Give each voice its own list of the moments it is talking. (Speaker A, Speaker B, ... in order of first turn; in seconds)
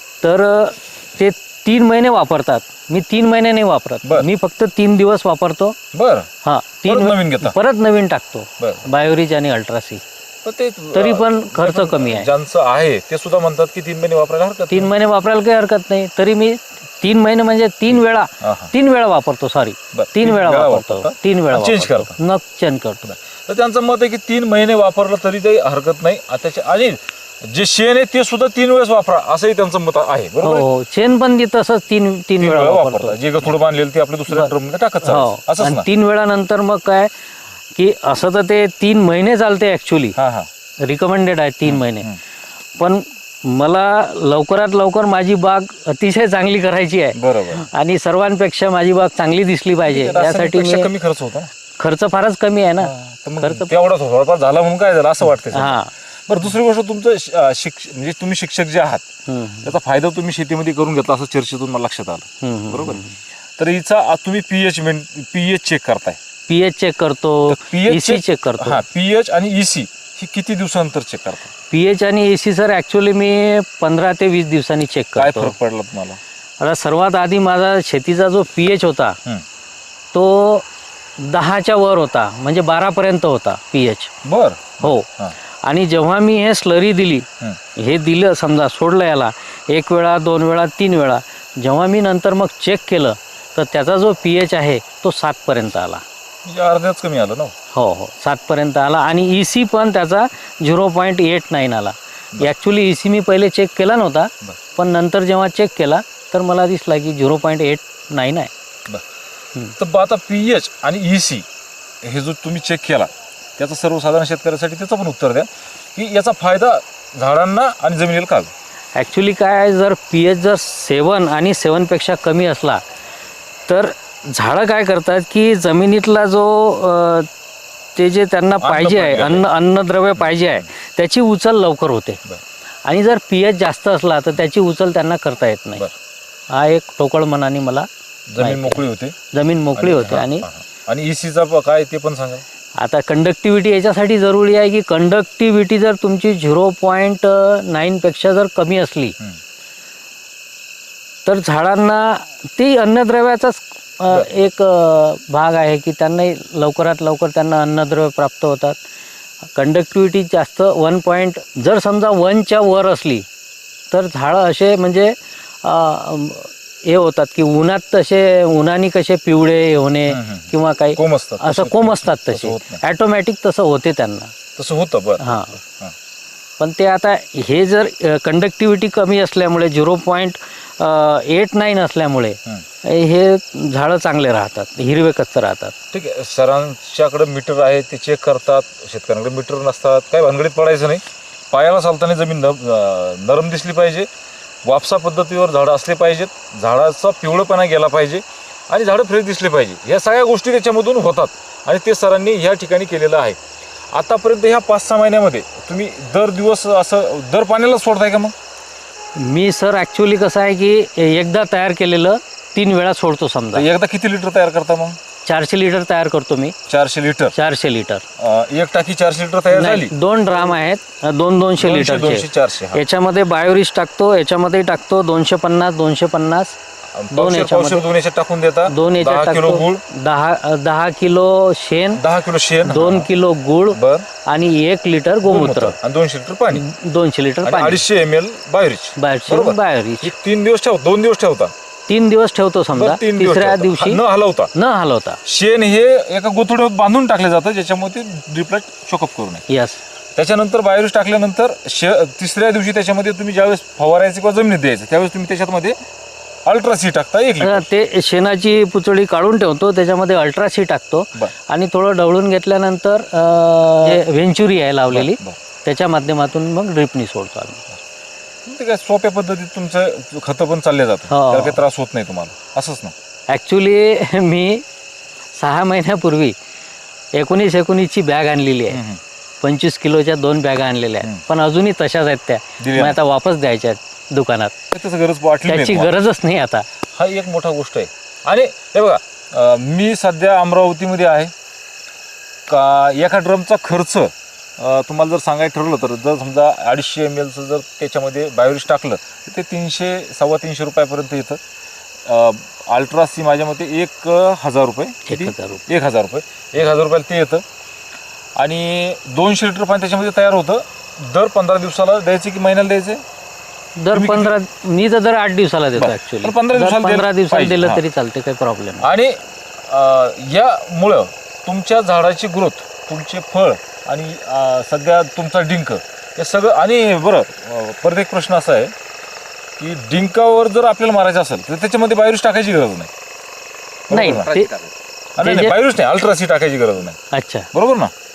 Speaker A: 0.2-5.8, 6.4-10.0, 10.9-12.3, 14.7-23.1, 30.4-33.2, 35.0-37.1, 37.8-40.1, 40.8-42.1, 42.8-50.9, 51.8-53.7, 55.5-55.9, 59.3-59.7, 62.4-63.1, 66.5-68.8, 71.7-75.5, 76.6-79.2, 80.1-80.6, 81.2-84.1, 84.8-85.1, 85.6-96.0, 97.7-108.5, 118.9-122.8, 123.7-127.3, 128.0-132.2, 132.8-135.8, 136.5-137.9, 138.4-140.5, 142.8-149.2, 151.2-158.8, 159.5-163.2, 163.9-174.3, 175.2-175.6, 176.6-185.7, 209.2-213.7, 215.2-216.5, 217.3-218.0, 219.5-226.6, 227.1-227.8, 228.7-232.0, 232.6-235.8, 236.5-237.8, 238.9-240.1, 241.9-244.0, 244.5-245.2, 249.5-249.8, 257.4-267.6, 271.1-271.6, 273.3-274.6, 275.3-276.3, 277.1-278.8, 279.4-284.5, 285.5-286.7, 305.1-305.6, 313.8-318.9, 333.9-334.5, 335.2-335.5, 337.1-337.5
Speaker B: 5.9-6.3, 6.8-7.5, 8.6-8.9, 10.4-14.9, 18.4-18.7, 19.9-22.1, 23.0-30.7, 32.4-35.9, 40.1-40.5, 41.6-42.2, 47.1-47.6, 49.8-51.5, 52.8-59.0, 59.6-63.0, 63.6-66.2, 67.5-71.5, 75.2-76.2, 84.2-85.4, 96.4-97.5, 109.8-111.5, 112.0-118.5, 128.6-129.5, 130.2-130.6, 138.3-139.2, 139.7-142.4, 170.1-172.8, 174.6-175.9, 185.9-194.1, 194.6-203.4, 203.9-208.3, 213.5-215.0, 216.7-217.3, 218.2-219.9, 221.6-222.8, 226.9-229.8, 231.9-233.1, 233.7-234.1, 235.2-236.6, 237.4-241.5, 242.7-244.5, 245.2-249.5, 250.2-255.8, 256.4-257.7, 264.9-265.4, 268.4-272.9, 278.7-279.0, 282.6-283.0, 284.7-285.9, 286.9-291.3, 292.5-301.4, 302.1-307.4, 308.4-313.0, 313.9-314.3, 315.8-317.8, 318.8-328.7, 329.6-332.9, 333.9-334.6, 335.2-337.0, 337.5-337.9